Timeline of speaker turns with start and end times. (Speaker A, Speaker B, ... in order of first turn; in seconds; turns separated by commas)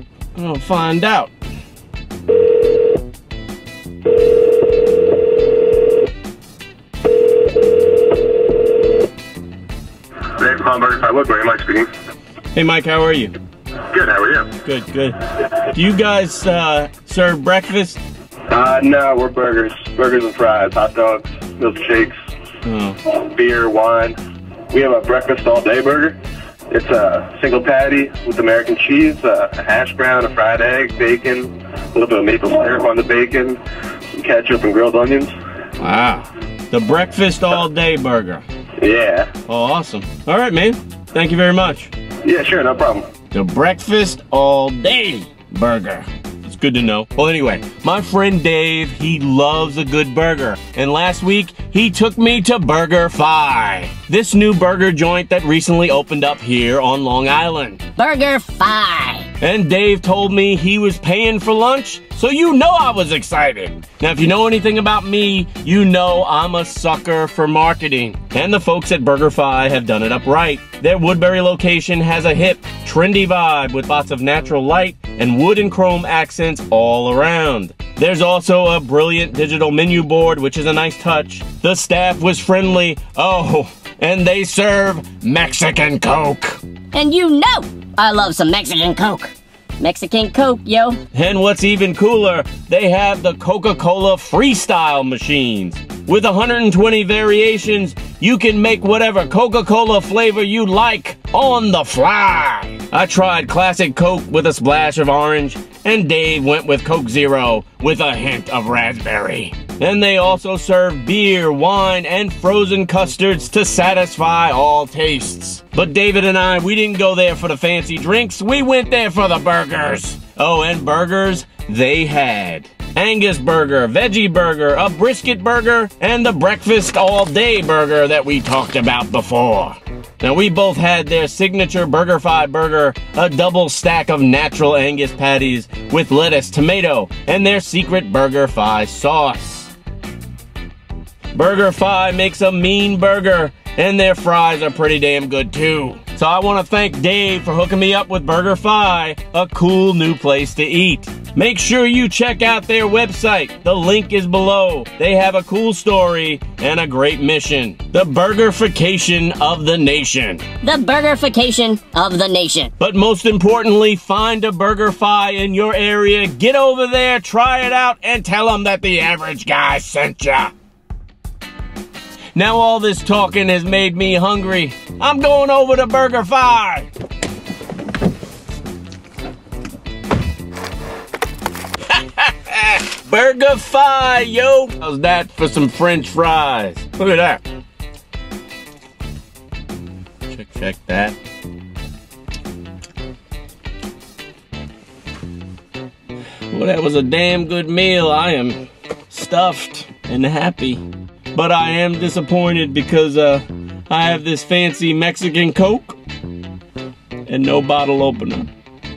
Speaker A: 0.3-1.3, Speaker B: 10.4-11.9, Speaker A: 12.5-13.3, Speaker B: 13.9-14.5, Speaker A: 14.6-18.0, Speaker B: 18.5-22.1, Speaker A: 22.6-23.0, Speaker B: 23.1-24.2, Speaker B: 24.7-26.2, Speaker B: 26.7-33.6, Speaker B: 34.1-35.3, Speaker A: 35.8-38.4, Speaker B: 38.8-39.3, Speaker A: 39.5-41.9, Speaker B: 42.2-43.1, Speaker A: 43.3-57.8, Speaker C: 58.0-59.3, Speaker A: 59.4-86.6, Speaker C: 86.9-91.0, Speaker A: 91.1-139.7, Speaker A: 141.3-160.5, Speaker C: 160.6-162.7, Speaker A: 162.8-170.5, Speaker A: 172.3-176.9, Speaker A: 181.9-187.4, Speaker A: 190.3-191.2, Speaker A: 196.5-206.0, Speaker A: 207.3-208.5